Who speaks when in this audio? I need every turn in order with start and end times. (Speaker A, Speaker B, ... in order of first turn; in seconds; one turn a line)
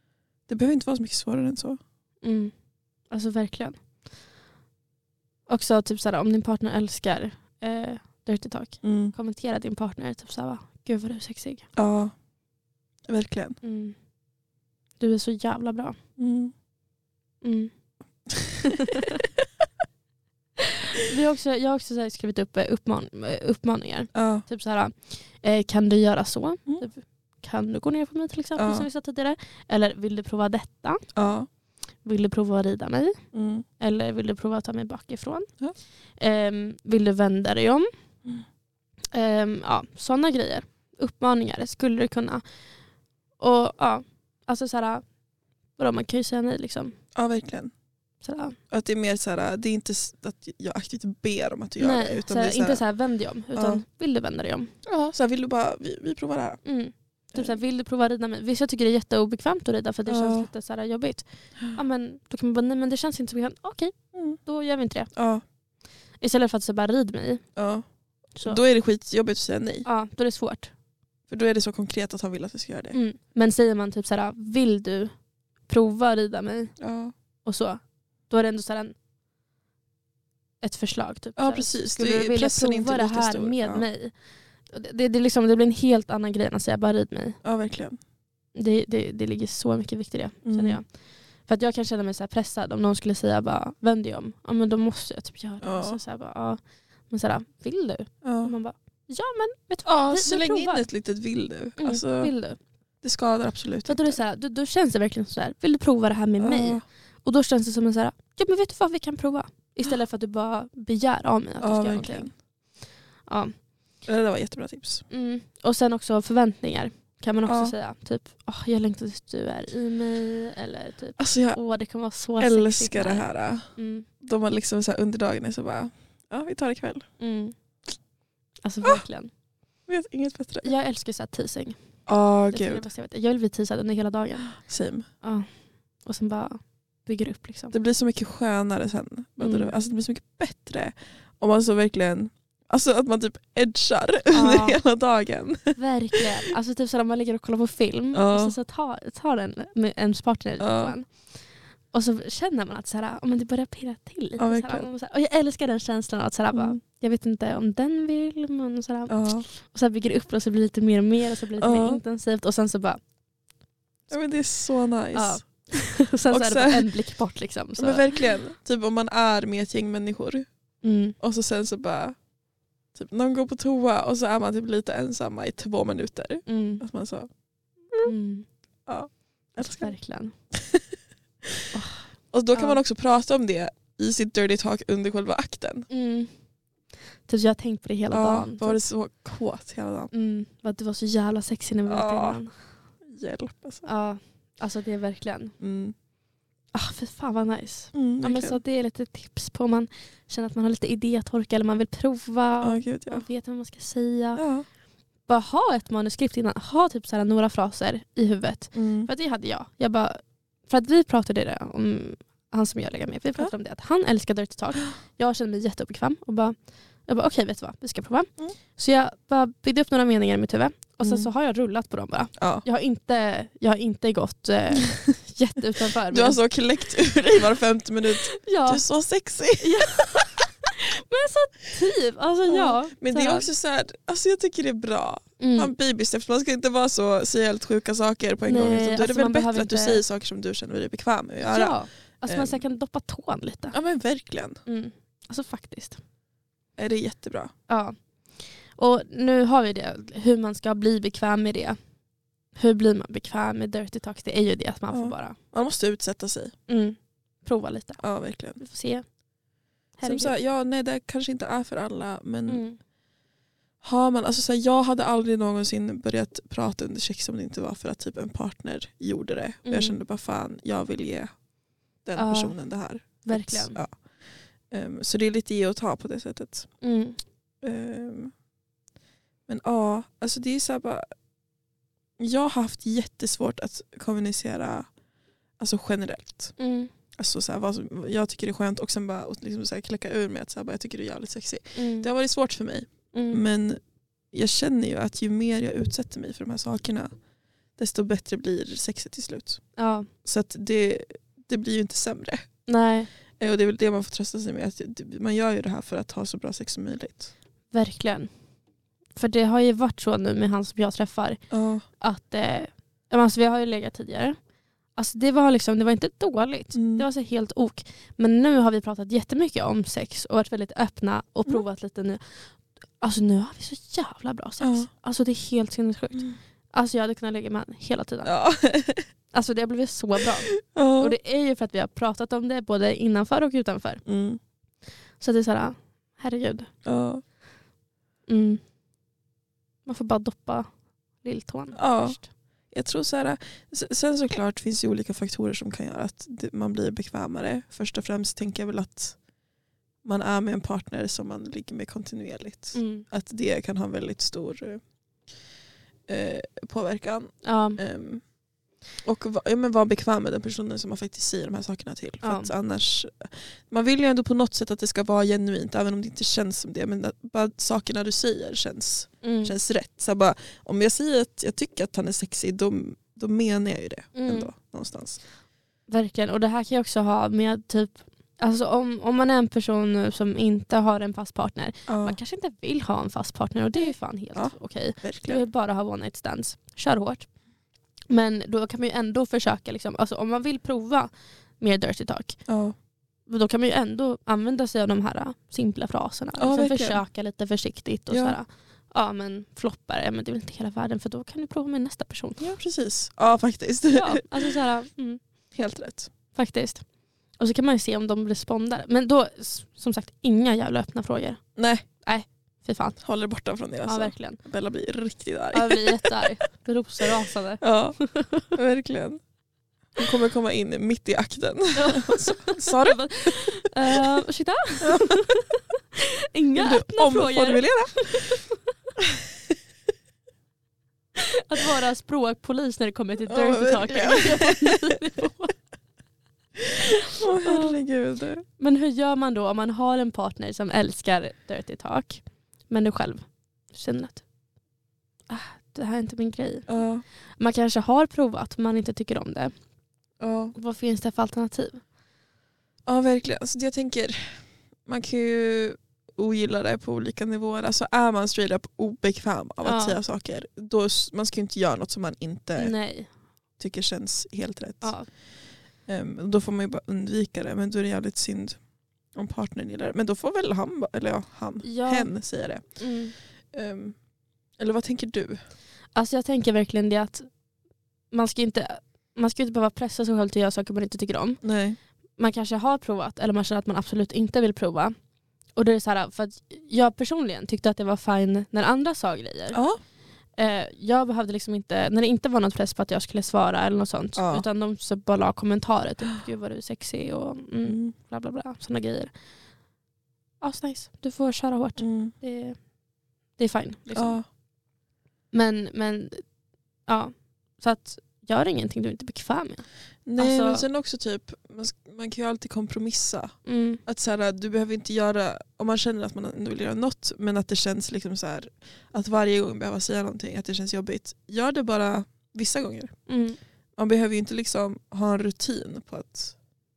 Speaker A: 0.5-1.8
Speaker B: 2.2-2.5
Speaker B: 3.1-3.8
Speaker B: 5.5-11.7
Speaker A: 8.8-9.1
Speaker A: 11.8-12.1
Speaker A: 13.1-13.6
Speaker B: 13.6-13.9
Speaker B: 15.0-16.0
Speaker A: 16.2-16.5
Speaker B: 17.4-17.7
Speaker A: 18.3-18.8
Speaker B: 18.6-19.2
Speaker B: 20.9-31.0
Speaker A: 24.1-24.4
Speaker A: 28.6-28.9
Speaker A: 31.1-31.5
Speaker B: 32.0-33.2
Speaker A: 33.3-33.6
Speaker B: 33.8-35.5
Speaker B: 36.2-37.9
Speaker B: 39.1-42.4
Speaker B: 43.4-45.0
Speaker B: 45.8-46.9
Speaker A: 47.1-47.7
Speaker B: 48.2-48.6
Speaker A: 48.7-52.8
Speaker B: 51.8-54.8
Speaker A: 53.5-53.8
Speaker A: 54.9-56.6
Speaker B: 56.6-65.1
Speaker A: 60.1-60.5
Speaker A: 65.1-65.4
Speaker B: 66.2-67.4
Speaker A: 67.5-67.8
Speaker A: 68.4-69.8
Speaker B: 69.8-70.7
Speaker A: 71.3-73.0
Speaker B: 72.9-75.1
Speaker B: 75.7-76.7
Speaker A: 76.8-77.1
Speaker B: 77.4-78.9
Speaker B: 80.6-84.1
Speaker A: 81.3-83.8
Speaker B: 84.7-87.4
Speaker A: 87.4-88.0
Speaker B: 88.5-90.8
Speaker A: 90.4-90.8
Speaker B: 91.5-100.8
Speaker A: 95.6-96.0
Speaker A: 98.2-98.5
Speaker A: 99.8-102.3
Speaker B: 101.8-102.6
Speaker A: 103.0-104.2
Speaker B: 103.9-112.3
Speaker A: 106.4-106.8
Speaker A: 111.6-112.3
Speaker B: 113.3-113.5
Speaker A: 114.0-115.0
Speaker B: 115.1-124.1
Speaker A: 117.5-117.7
Speaker A: 121.2-121.6
Speaker A: 122.4-123.7
Speaker A: 124.2-127.0
Speaker B: 127.2-127.5
Speaker B: 128.6-129.3
Speaker A: 129.9-130.7
Speaker B: 130.6-131.8
Speaker A: 132.1-132.8
Speaker B: 132.5-134.5
Speaker A: 134.5-135.1
Speaker B: 135.2-135.5
Speaker B: 136.0-137.7
Speaker A: 137.7-146.5
Speaker B: 139.4-139.7
Speaker B: 144.3-144.8
Speaker B: 145.8-151.1
Speaker A: 148.1-148.6
Speaker A: 150.6-150.9
Speaker B: 151.9-163.0
Speaker A: 154.4-154.9
Speaker A: 156.5-156.8
Speaker A: 159.1-159.4
Speaker A: 161.6-162.0
Speaker A: 164.1-165.4
Speaker B: 165.1-168.1
Speaker A: 166.3-166.9
Speaker A: 167.8-170.5
Speaker B: 170.8-171.2
Speaker A: 171.2-172.2
Speaker A: 172.9-177.3
Speaker B: 176.5-176.8
Speaker B: 178.0-178.5
Speaker A: 178.9-179.9
Speaker B: 179.6-180.3
Speaker A: 180.5-180.8
Speaker B: 181.7-182.8
Speaker A: 182.3-185.9
Speaker B: 185.9-186.3
Speaker B: 187.3-188.8
Speaker A: 188.1-190.1
Speaker B: 190.1-192.5
Speaker A: 191.9-192.4
Speaker A: 193.1-193.8
Speaker B: 193.8-195.5
Speaker A: 195.6-195.9
Speaker B: 196.7-204.4
Speaker A: 197.9-198.6
Speaker A: 202.6-203.2
Speaker A: 204.3-204.7
Speaker B: 205.3-226.4
Speaker A: 208.7-209.1
Speaker A: 221.0-221.3
Speaker A: 222.4-222.6
Speaker A: 225.9-230.3
Speaker B: 228.1-228.8
Speaker B: 229.6-233.5
Speaker A: 232.5-241.8
Speaker B: 235.4-235.7
Speaker B: 238.4-240.0
Speaker B: 241.4-243.8
Speaker A: 242.3-242.6
Speaker A: 243.7-244.6
Speaker B: 244.7-246.0
Speaker A: 246.8-247.5
Speaker B: 247.7-247.9
Speaker B: 248.8-251.8
Speaker B: 252.6-255.4
Speaker A: 254.9-256.5
Speaker B: 256.7-258.0
Speaker A: 258.0-258.6
Speaker B: 258.6-259.0
Speaker B: 260.0-260.3
Speaker A: 260.0-262.6
Speaker B: 262.5-262.8
Speaker A: 263.8-271.3
Speaker B: 269.6-270.0
Speaker A: 272.0-273.9
Speaker B: 272.2-272.6
Speaker B: 273.2-273.8
Speaker A: 274.7-276.7
Speaker B: 276.8-277.2
Speaker A: 277.6-278.3
Speaker A: 279.5-281.1
Speaker A: 282.2-284.9
Speaker A: 285.6-286.5
Speaker B: 286.6-286.9
Speaker A: 287.2-293.8
Speaker B: 291.8-292.1
Speaker B: 293.1-293.4
Speaker A: 294.3-297.1
Speaker A: 297.8-299.6
Speaker B: 299.8-300.1
Speaker A: 300.2-302.4
Speaker B: 302.7-303.1
Speaker A: 303.4-307.3
Speaker B: 307.7-308.3
Speaker B: 309.1-311.4
Speaker A: 311.5-311.8
Speaker B: 312.0-314.4
Speaker B: 314.9-322.4
Speaker A: 316.7-317.1
Speaker B: 323.0-328.3
Speaker A: 324.6-324.9
Speaker A: 328.2-329.1
Speaker B: 329.3-334.0
Speaker A: 330.5-331.1
Speaker A: 334.1-334.4
Speaker B: 335.2-336.7
Speaker A: 336.8-337.2
Speaker B: 338.3-338.6
Speaker B: 339.9-340.7
Speaker B: 341.2-342.2
Speaker A: 341.7-342.2
Speaker A: 342.7-349.2
Speaker A: 350.0-354.8
Speaker B: 352.7-353.0
Speaker A: 356.1-358.2
Speaker B: 357.4-357.8
Speaker A: 359.0-375.2
Speaker B: 362.2-362.5
Speaker B: 369.2-369.6
Speaker B: 374.1-374.5
Speaker B: 375.9-387.3
Speaker A: 381.9-382.2
Speaker A: 383.8-385.4
Speaker B: 388.1-392.4
Speaker A: 392.5-392.7
Speaker B: 393.3-402.5
Speaker A: 396.4-397.0
Speaker A: 398.1-398.4
Speaker A: 402.4-404.6
Speaker B: 403.9-405.2
Speaker A: 405.5-406.1
Speaker B: 406.3-406.8
Speaker B: 407.4-411.4
Speaker A: 411.6-411.8
Speaker B: 412.0-413.0
Speaker A: 413.0-416.3
Speaker B: 413.9-414.4
Speaker B: 415.5-418.5
Speaker A: 417.6-418.0
Speaker A: 418.5-419.2
Speaker A: 419.9-423.7
Speaker B: 421.7-428.6
Speaker A: 424.8-425.2
Speaker A: 426.5-428.4
Speaker A: 429.0-429.2
Speaker B: 431.1-435.5
Speaker A: 433.3-435.0
Speaker A: 436.6-438.4
Speaker B: 436.9-437.8
Speaker B: 438.6-444.2
Speaker B: 445.3-446.7
Speaker A: 446.7-447.0
Speaker B: 447.4-449.5
Speaker A: 450.2-450.5
Speaker B: 450.5-451.8
Speaker A: 452.9-462.7
Speaker B: 459.6-460.0
Speaker B: 462.6-463.1
Speaker A: 463.6-464.9
Speaker B: 464.8-465.1
Speaker A: 465.9-468.6
Speaker A: 469.1-472.8
Speaker B: 471.6-472.1
Speaker B: 472.8-473.1
Speaker A: 473.5-473.9
Speaker A: 474.6-475.4
Speaker B: 475.9-477.3
Speaker B: 478.1-481.4
Speaker A: 481.4-481.8
Speaker B: 482.2-484.9
Speaker B: 485.6-489.6
Speaker A: 489.5-489.8
Speaker B: 490.4-499.1
Speaker A: 494.1-494.4
Speaker A: 497.6-497.9
Speaker B: 500.4-502.6
Speaker A: 501.8-502.1
Speaker B: 503.4-504.2
Speaker A: 503.9-504.2
Speaker B: 505.3-506.2
Speaker B: 506.9-510.6
Speaker A: 510.1-523.0
Speaker B: 513.5-513.8
Speaker B: 523.1-523.4
Speaker A: 523.8-526.4